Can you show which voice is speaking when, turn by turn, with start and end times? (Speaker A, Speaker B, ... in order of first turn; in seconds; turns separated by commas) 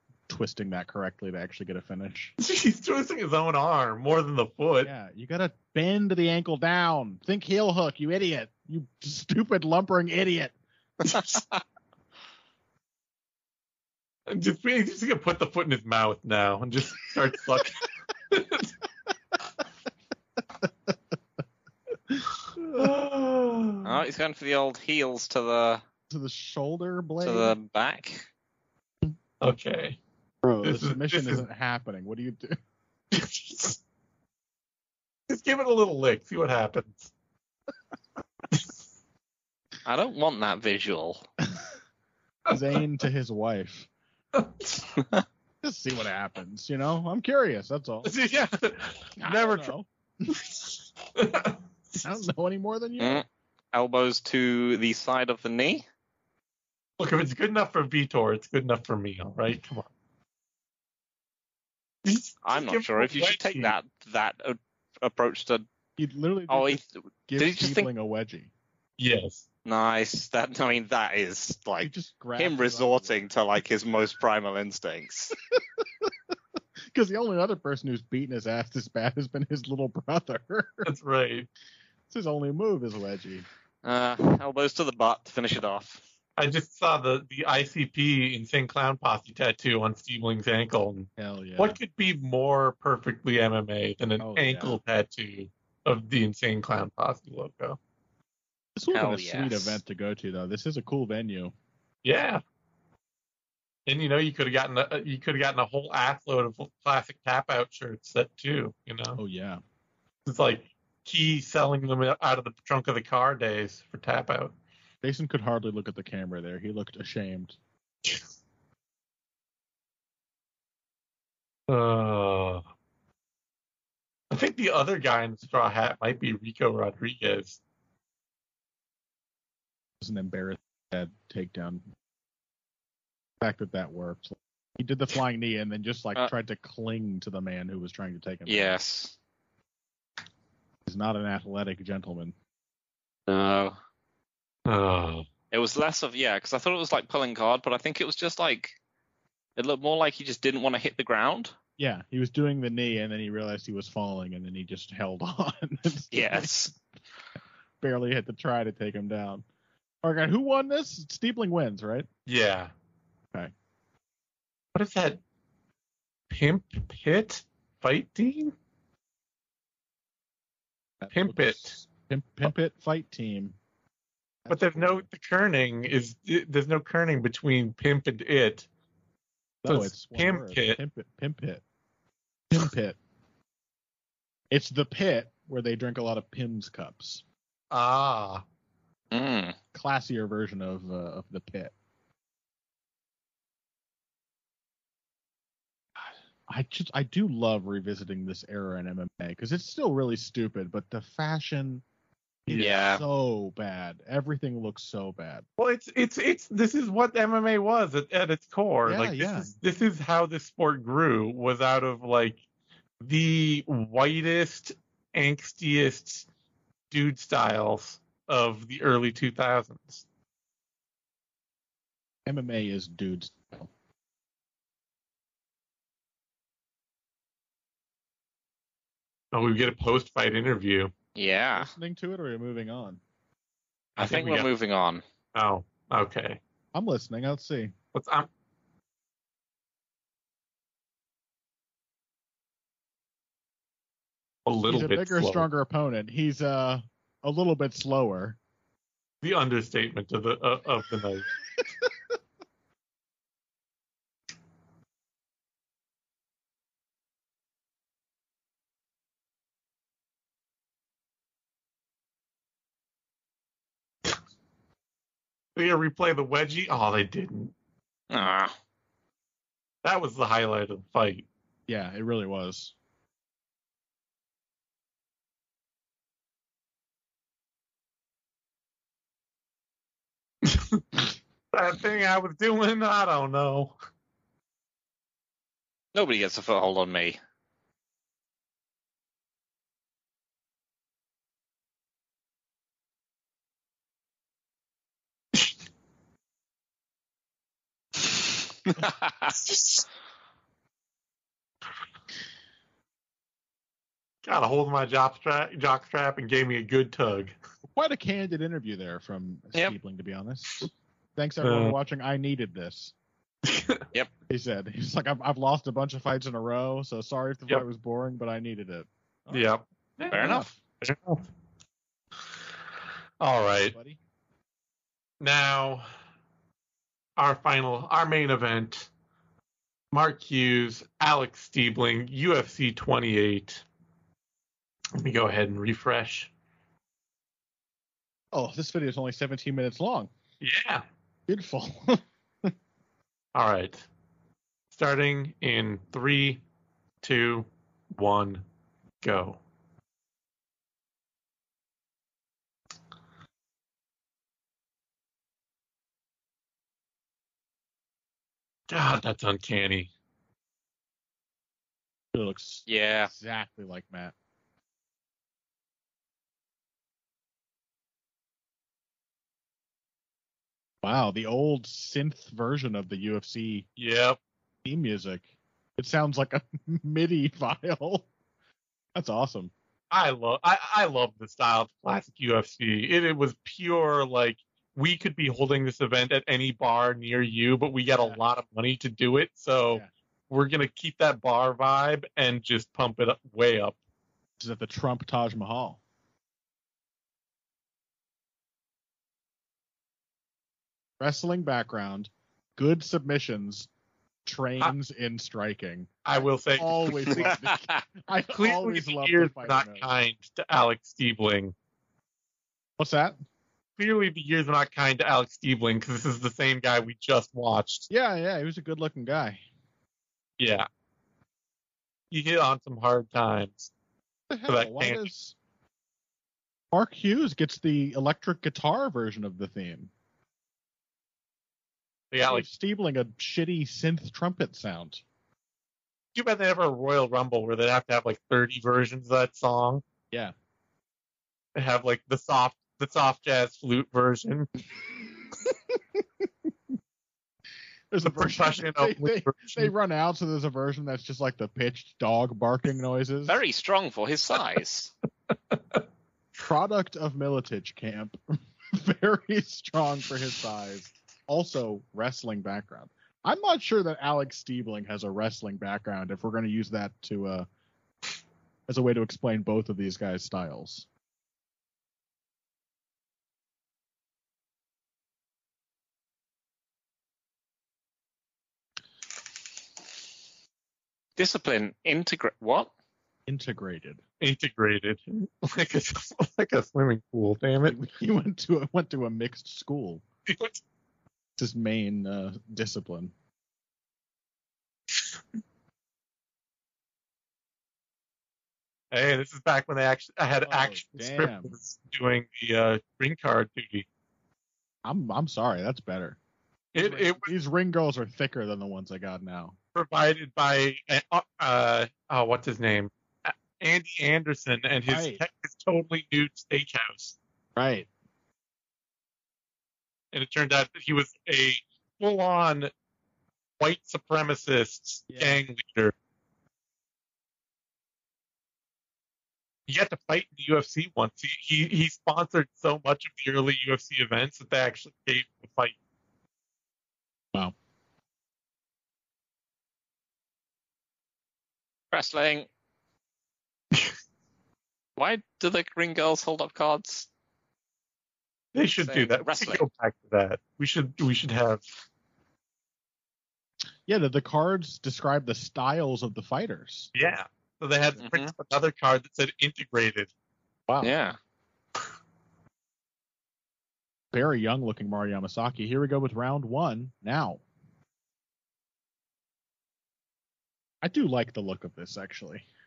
Speaker A: 0.3-2.3, Speaker B: 2.4-4.9, Speaker A: 4.8-10.6, Speaker C: 11.1-11.4, Speaker B: 14.3-18.7, Speaker A: 22.1-22.8, Speaker B: 22.7-24.0, Speaker C: 23.8-25.8, Speaker A: 26.1-27.6, Speaker C: 27.2-28.3, Speaker B: 29.4-30.0, Speaker A: 30.4-32.6, Speaker B: 30.6-31.4, Speaker B: 33.1-33.8, Speaker B: 35.3-37.1, Speaker C: 39.9-41.3, Speaker A: 42.5-43.9, Speaker B: 44.3-44.8, Speaker A: 45.6-48.1, Speaker B: 48.0-49.7, Speaker A: 49.2-50.4, Speaker B: 50.4-52.1, Speaker A: 52.0-53.2, Speaker C: 53.0-55.9, Speaker B: 57.0-59.9, Speaker B: 62.0-63.7, Speaker C: 62.5-65.7, Speaker A: 66.0-68.5, Speaker C: 66.5-67.9, Speaker B: 69.0-69.5, Speaker C: 69.7-75.3, Speaker A: 71.8-73.3, Speaker A: 75.5-76.1, Speaker A: 76.9-80.9, Speaker B: 80.8-81.5, Speaker A: 82.1-83.5, Speaker C: 83.8-86.0, Speaker B: 86.4-97.8, Speaker A: 91.2-91.8, Speaker A: 94.2-94.8, Speaker A: 98.8-101.5, Speaker C: 98.9-99.8, Speaker B: 102.0-102.4, Speaker B: 103.9-109.2, Speaker A: 109.2-109.6, Speaker B: 110.3-114.5, Speaker A: 115.0-117.6, Speaker B: 121.7-122.6, Speaker B: 124.3-127.6, Speaker A: 130.0-131.8, Speaker A: 133.4-138.8, Speaker C: 138.5-139.2, Speaker A: 140.9-142.3, Speaker C: 143.3-143.8, Speaker B: 144.7-145.3, Speaker C: 145.5-148.8, Speaker C: 149.6-151.5, Speaker A: 151.8-156.5, Speaker C: 156.1-156.8, Speaker A: 157.8-159.4, Speaker A: 160.0-162.1, Speaker B: 162.3-162.7, Speaker B: 164.7-165.2, Speaker B: 166.3-168.5, Speaker A: 171.0-173.6, Speaker B: 171.1-171.8, Speaker A: 174.4-175.1, Speaker B: 174.5-178.7, Speaker A: 179.6-181.6, Speaker B: 179.7-180.8, Speaker A: 182.5-183.0, Speaker A: 184.5-187.2, Speaker B: 187.7-188.4, Speaker C: 189.1-189.6, Speaker A: 189.7-191.7, Speaker A: 196.0-201.8, Speaker A: 202.5-205.5, Speaker C: 202.5-203.0, Speaker B: 205.6-212.4, Speaker A: 208.9-209.5, Speaker B: 213.0-216.3, Speaker B: 216.9-220.0, Speaker A: 222.3-223.7, Speaker B: 229.3-230.9, Speaker C: 231.2-231.7, Speaker A: 231.5-233.0, Speaker C: 234.0-235.0, Speaker B: 234.0-234.5, Speaker B: 235.3-236.4, Speaker A: 236.7-237.7, Speaker B: 237.9-238.3, Speaker B: 244.5-245.5, Speaker A: 244.7-248.4, Speaker B: 249.2-251.3, Speaker B: 265.6-267.5, Speaker C: 268.1-268.6, Speaker B: 269.8-271.3, Speaker A: 271.7-272.7, Speaker B: 280.4-280.8, Speaker B: 281.5-283.8, Speaker C: 285.9-287.2, Speaker C: 298.8-299.4, Speaker B: 304.2-307.4, Speaker A: 307.7-312.9, Speaker B: 311.4-311.8, Speaker B: 313.4-313.8, Speaker A: 314.3-319.5, Speaker B: 319.3-321.2, Speaker C: 320.1-320.5, Speaker A: 320.2-320.5, Speaker B: 323.2-323.8, Speaker A: 323.7-324.0, Speaker B: 325.2-325.9, Speaker B: 327.2-328.9, Speaker B: 329.9-333.6, Speaker B: 334.9-336.3, Speaker A: 338.3-340.1, Speaker B: 340.4-340.9, Speaker A: 341.3-342.5, Speaker B: 343.4-343.9, Speaker B: 344.7-346.4, Speaker B: 347.0-348.4, Speaker B: 349.0-349.4, Speaker B: 358.7-359.9, Speaker A: 362.1-364.1, Speaker C: 362.7-363.1, Speaker A: 370.8-373.7, Speaker B: 373.8-374.2, Speaker A: 374.6-378.1, Speaker A: 378.9-379.5, Speaker B: 379.9-393.8, Speaker A: 394.4-395.8, Speaker A: 401.0-403.7, Speaker A: 404.2-405.9, Speaker B: 406.1-407.3, Speaker A: 406.6-409.9, Speaker C: 407.3-407.8, Speaker B: 408.3-411.5, Speaker A: 412.8-413.2, Speaker B: 413.8-417.9, Speaker A: 417.9-419.4, Speaker B: 420.4-420.7, Speaker B: 422.1-423.7, Speaker A: 424.3-425.4, Speaker B: 424.5-425.1, Speaker A: 426.7-429.9, Speaker B: 432.1-432.5, Speaker A: 432.2-435.0, Speaker B: 436.1-439.8, Speaker B: 441.6-444.5, Speaker A: 445.3-446.3, Speaker A: 447.9-453.4, Speaker B: 448.0-449.7, Speaker C: 453.3-454.9, Speaker A: 456.4-467.5, Speaker A: 468.7-470.9, Speaker C: 481.2-482.7, Speaker A: 483.3-484.0, Speaker B: 484.2-487.8, Speaker A: 487.7-490.0, Speaker B: 490.3-490.6, Speaker A: 491.4-493.1, Speaker B: 498.9-503.9, Speaker A: 500.4-501.5, Speaker A: 504.9-506.2, Speaker B: 506.7-507.3, Speaker A: 506.8-509.6, Speaker B: 509.8-517.2, Speaker A: 514.9-515.2, Speaker A: 517.6-517.9, Speaker B: 520.1-522.7, Speaker B: 523.6-525.9, Speaker A: 525.1-525.4, Speaker B: 529.7-535.8, Speaker C: 541.9-542.5, Speaker C: 545.0-547.1, Speaker B: 548.5-551.6, Speaker C: 548.9-549.6, Speaker A: 553.9-556.9, Speaker B: 557.0-560.1, Speaker C: 558.0-558.3, Speaker A: 560.7-560.9, Speaker C: 560.8-561.2, Speaker A: 564.1-567.4, Speaker A: 570.8-572.5